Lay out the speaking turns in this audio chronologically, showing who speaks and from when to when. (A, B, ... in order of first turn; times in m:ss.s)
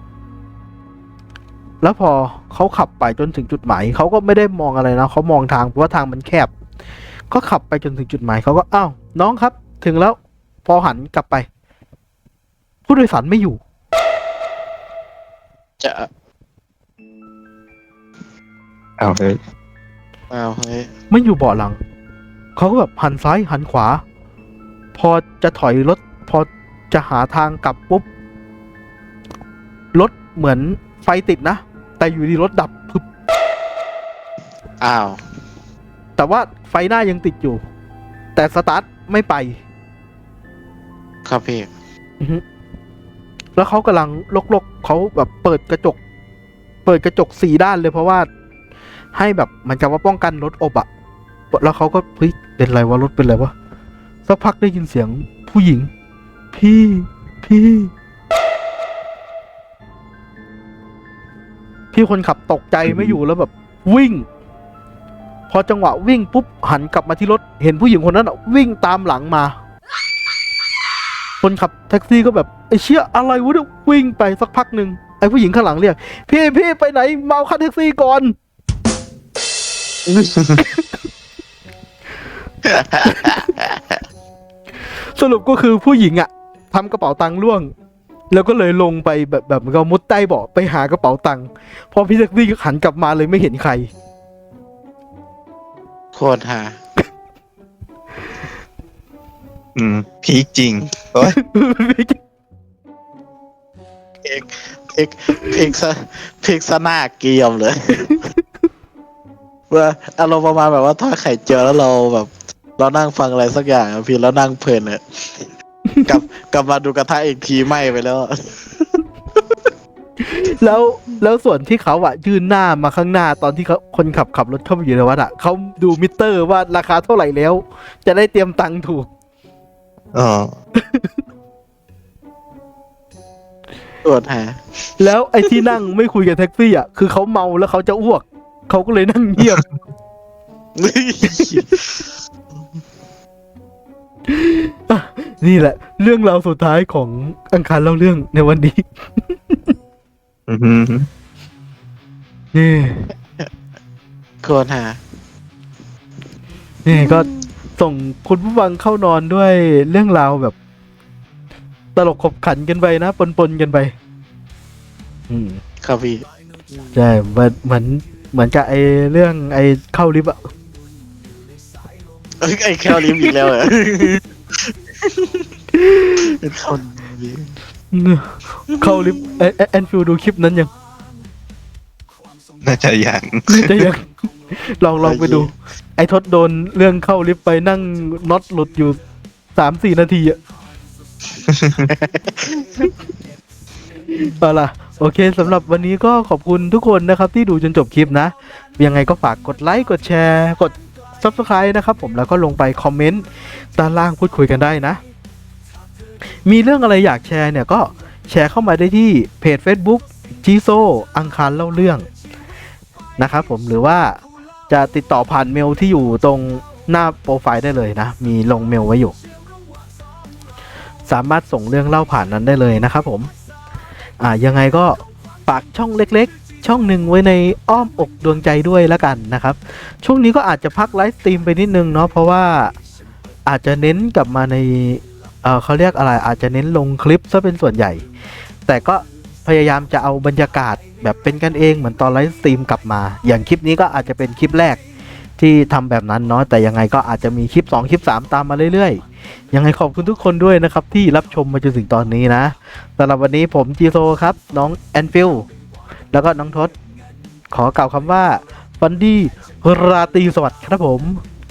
0:01.8-0:06.5 A
0:07.3-0:11.5 A
0:12.9-0:13.6 A
0:15.8-0:16.1 B
0:19.0-0:19.4 C
0:20.3-0:20.9 B
0:21.1-0:21.8 A
0:22.6-0:24.0 A
0:24.9-0:28.0 A
0:29.9-0:33.0 A
0:34.8-0:35.2 B
0:36.2-0:37.6 A
0:38.3-0:39.6 A
0:41.2-0:41.7 B
0:43.6-0:46.0 A
0:46.8-0:48.3 A
0:49.1-0:50.9 A
0:51.5-0:53.5 A
0:54.3-0:55.9 A
0:56.5-0:57.9 A
1:01.9-1:04.2 A
1:02.9-1:03.2 C
1:05.5-1:09.5 A
1:11.4-1:18.3 A
1:20.1-1:20.4 B
1:22.6-1:24.0 B
1:23.0-1:23.5 A
1:25.2-1:27.7 A
1:28.3-1:33.9 A
1:36.1-1:36.8 B
1:39.8-1:41.4 C
1:41.3-1:42.2 A
1:44.2-1:48.2 B
1:49.7-1:55.5 B
1:55.9-1:56.2 A
1:56.0-1:59.7 B
2:00.2-2:09.1 A
2:10.1-2:10.5 C
2:10.8-2:11.1 A
2:14.0-2:14.9 B
2:15.0-2:19.6 A
2:20.8-2:22.0 B
2:24.3-2:29.6 A
2:30.5-2:31.1 C
2:32.5-2:33.1 A
2:34.4-2:35.0 B
2:36.8-2:40.5 A
2:36.9-2:37.5 B
2:42.0-2:43.9 A
2:45.3-2:45.6 A
2:45.8-2:46.2 B
2:46.9-2:50.5 A
2:52.4-2:54.2 B
2:55.0-2:55.5 B
2:55.8-2:56.3 A
2:56.2-2:57.5 B
2:57.9-3:00.7 A
2:58.7-2:59.3 B
3:02.6-3:03.9 C
3:03.5-3:09.0 A
3:05.0-3:05.5 B
3:09.6-3:10.4 A
3:11.5-3:11.9 C
3:11.8-3:12.9 B
3:14.1-3:25.0 A
3:26.4-3:32.1 A
3:33.2-3:39.1 A
3:41.1-3:43.3 A
3:44.2-3:52.7 A
3:53.4-3:58.0 A
3:58.6-4:04.8 A
4:05.4-4:15.5 A
4:16.1-4:16.7 A
4:17.5-4:21.2 A